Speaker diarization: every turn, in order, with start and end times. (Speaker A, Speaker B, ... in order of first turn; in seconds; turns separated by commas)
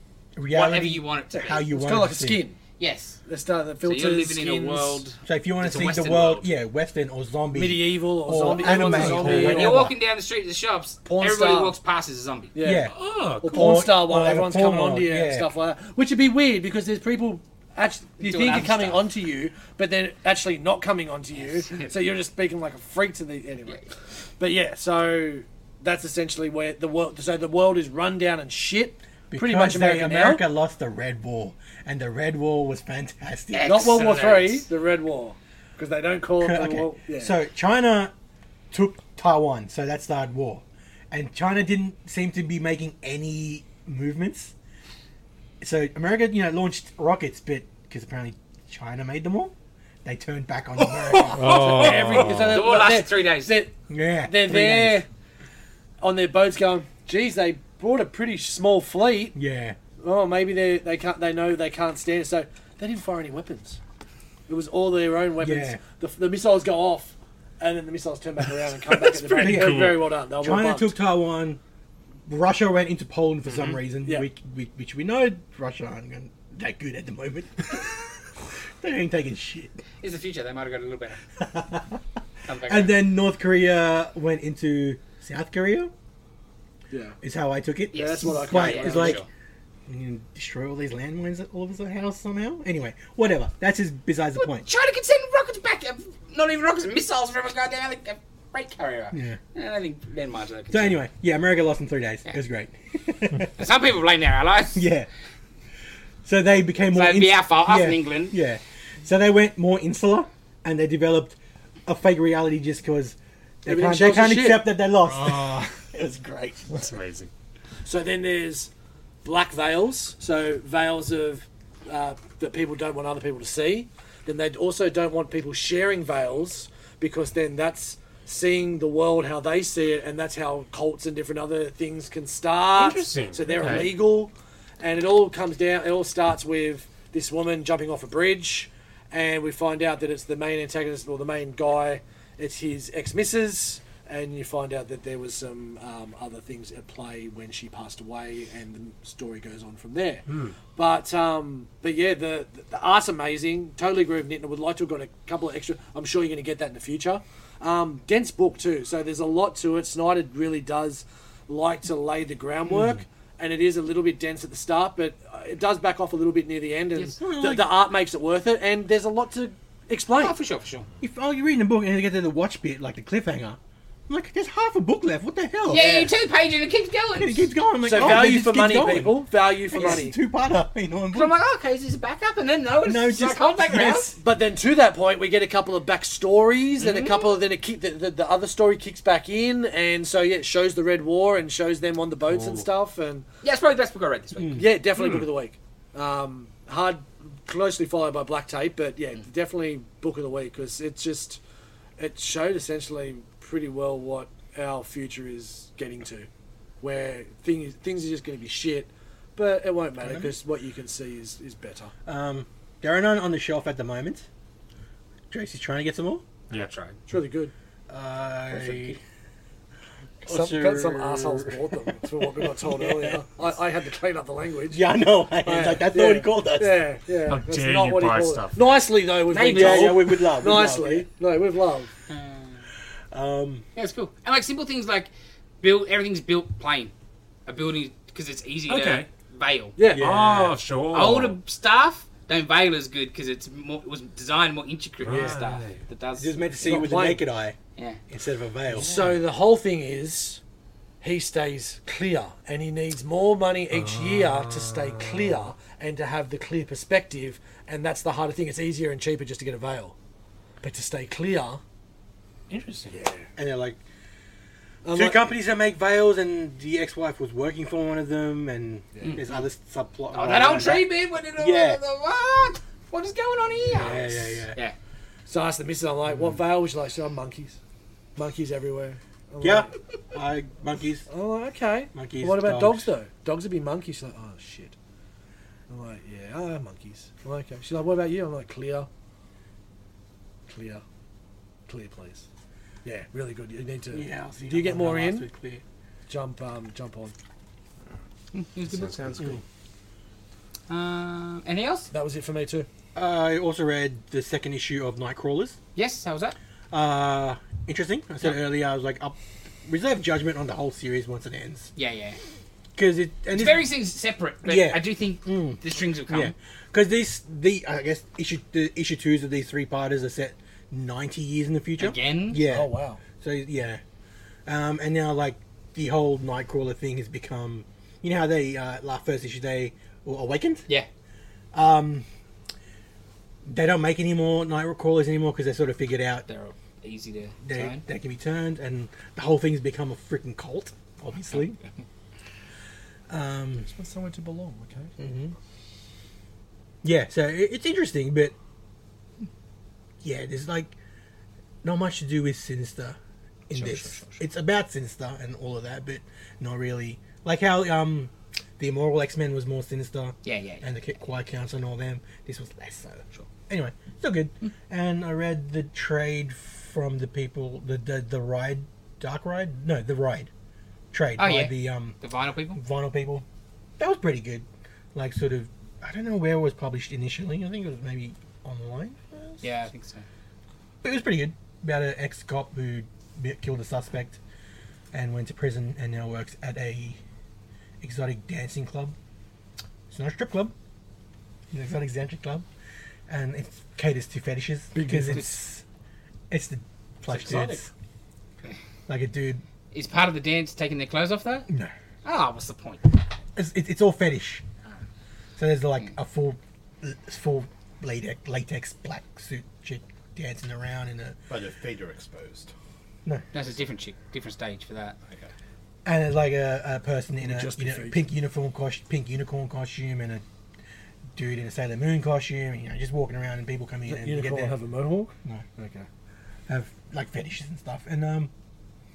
Speaker A: 0.3-2.4, Speaker B: 0.5-1.6, Speaker C: 1.7-2.6, Speaker B: 2.8-3.2, Speaker C: 3.2-5.0, Speaker B: 3.8-6.5, Speaker A: 5.2-9.9, Speaker C: 7.5-9.9, Speaker B: 8.6-12.5, Speaker C: 11.0-11.8, Speaker C: 12.5-12.9, Speaker A: 12.6-15.5, Speaker D: 12.9-13.8, Speaker C: 13.4-23.9, Speaker B: 18.2-19.1, Speaker B: 21.3-21.9, Speaker C: 24.4-30.4, Speaker A: 29.3-34.0, Speaker B: 33.5-34.7, Speaker C: 33.6-37.3, Speaker A: 36.4-38.1, Speaker A: 38.7-44.5, Speaker A: 45.6-49.5, Speaker A: 50.0-51.5, Speaker C: 51.3-53.7, Speaker E: 51.4-52.5, Speaker D: 51.4-52.6, Speaker B: 51.8-53.6, Speaker A: 53.9-55.0, Speaker C: 54.2-55.1, Speaker C: 56.0-59.4, Speaker A: 59.3-59.8, Speaker C: 60.0-63.8, Speaker C: 64.5-70.9, Speaker A: 65.4-65.8, Speaker D: 69.2-70.0, Speaker A: 69.3-71.6, Speaker A: 72.3-77.9, Speaker A: 78.8-79.7, Speaker B: 80.0-81.2, Speaker A: 81.4-82.0, Speaker B: 82.5-83.0, Speaker A: 82.7-85.9, Speaker C: 86.9-87.2, Speaker A: 87.2-89.2, Speaker B: 87.9-89.3, Speaker C: 87.9-89.2, Speaker A: 89.9-94.7, Speaker B: 94.4-101.0, Speaker A: 99.1-99.4, Speaker A: 100.7-103.5, Speaker B: 103.5-104.8, Speaker A: 104.7-105.1, Speaker A: 106.2-116.8, Speaker B: 106.9-108.4, Speaker C: 113.7-114.7, Speaker D: 116.7-117.3, Speaker C: 117.8-118.7, Speaker C: 119.2-170.4, Speaker D: 132.8-134.0, Speaker D: 150.3-150.5, Speaker A: 162.7-163.0, Speaker A: 167.1-167.7, Speaker B: 170.2-170.9, Speaker A: 171.0-176.1, Speaker B: 175.7-177.5, Speaker A: 177.2-181.3, Speaker C: 177.8-180.2, Speaker B: 179.8-180.0, Speaker B: 181.1-184.1, Speaker A: 182.8-184.2, Speaker C: 184.2-193.2, Speaker B: 186.8-187.3, Speaker D: 192.2-192.7, Speaker B: 193.4-194.6, Speaker A: 194.4-194.6, Speaker C: 194.6-201.4, Speaker D: 194.9-195.3, Speaker C: 202.0-206.3, Speaker C: 206.8-211.9, Speaker A: 210.0-210.3, Speaker A: 212.1-214.2, Speaker A: 215.3-216.2, Speaker B: 216.5-217.0, Speaker C: 217.1-217.5, Speaker A: 217.9-219.0, Speaker B: 218.5-219.0, Speaker A: 220.2-223.2, Speaker C: 220.2-224.8, Speaker A: 224.7-226.8, Speaker C: 225.4-231.9, Speaker D: 227.3-228.6, Speaker B: 229.3-230.0, Speaker A: 229.4-231.1, Speaker B: 232.1-232.6, Speaker A: 233.1-233.6, Speaker B: 233.8-235.1, Speaker B: 235.6-236.9, Speaker B: 237.5-239.8, Speaker D: 238.7-239.1, Speaker C: 239.8-240.1, Speaker A: 239.9-240.5, Speaker D: 239.9-241.4, Speaker B: 240.9-246.3, Speaker D: 245.0-245.8, Speaker A: 246.2-247.6, Speaker C: 246.6-247.2, Speaker A: 248.1-248.9, Speaker C: 248.7-250.4, Speaker C: 251.0-259.9, Speaker D: 253.7-255.3, Speaker C: 260.6-261.6, Speaker D: 262.5-262.9, Speaker C: 262.9-263.3, Speaker A: 263.4-263.8, Speaker C: 264.8-265.3, Speaker A: 264.9-271.8, Speaker B: 269.0-269.4, Speaker B: 270.1-274.7, Speaker A: 273.7-274.6, Speaker C: 275.3-277.6, Speaker C: 278.1-279.7, Speaker A: 279.4-281.1, Speaker C: 281.1-284.7, Speaker A: 281.9-282.9, Speaker C: 285.7-288.9, Speaker C: 290.5-290.8, Speaker C: 291.7-292.2, Speaker C: 292.8-295.3, Speaker A: 293.9-295.6, Speaker C: 296.1-297.1, Speaker B: 298.3-299.2, Speaker D: 298.6-299.4, Speaker B: 300.7-301.9, Speaker C: 301.9-302.7, Speaker A: 302.9-305.6, Speaker B: 305.7-306.4, Speaker A: 306.7-311.7, Speaker B: 311.8-312.2, Speaker A: 312.8-313.7, Speaker B: 313.3-316.3, Speaker A: 314.4-323.8, Speaker B: 321.8-322.4, Speaker C: 322.4-323.0, Speaker A: 324.4-330.6, Speaker A: 331.5-332.1, Speaker A: 333.4-336.2, Speaker B: 336.3-337.8, Speaker A: 337.4-341.6, Speaker A: 343.1-343.7, Speaker C: 343.6-344.9, Speaker A: 345.0-345.3, Speaker A: 346.8-348.3, Speaker A: 350.0-350.7, Speaker A: 351.6-353.0, Speaker A: 353.5-370.3, Speaker B: 360.2-360.7, Speaker A: 370.9-372.0, Speaker B: 371.2-372.6, Speaker A: 372.5-373.2, Speaker A: 373.8-379.5, Speaker B: 379.4-380.1, Speaker A: 380.8-384.2, Speaker A: 384.9-387.0, Speaker A: 387.8-388.9, Speaker A: 389.9-390.5, Speaker A: 391.5-392.4, Speaker A: 393.1-395.6, Speaker C: 394.7-395.4, Speaker A: 396.3-397.7, Speaker A: 398.9-399.4, Speaker B: 399.7-401.5, Speaker B: 402.0-403.0, Speaker A: 403.4-404.4, Speaker A: 405.4-411.2, Speaker E: 411.3-412.5, Speaker B: 413.3-415.0, Speaker E: 415.1-415.3, Speaker A: 415.8-420.2, Speaker C: 417.2-418.0, Speaker A: 421.1-424.6, Speaker C: 423.9-425.9, Speaker A: 426.5-428.3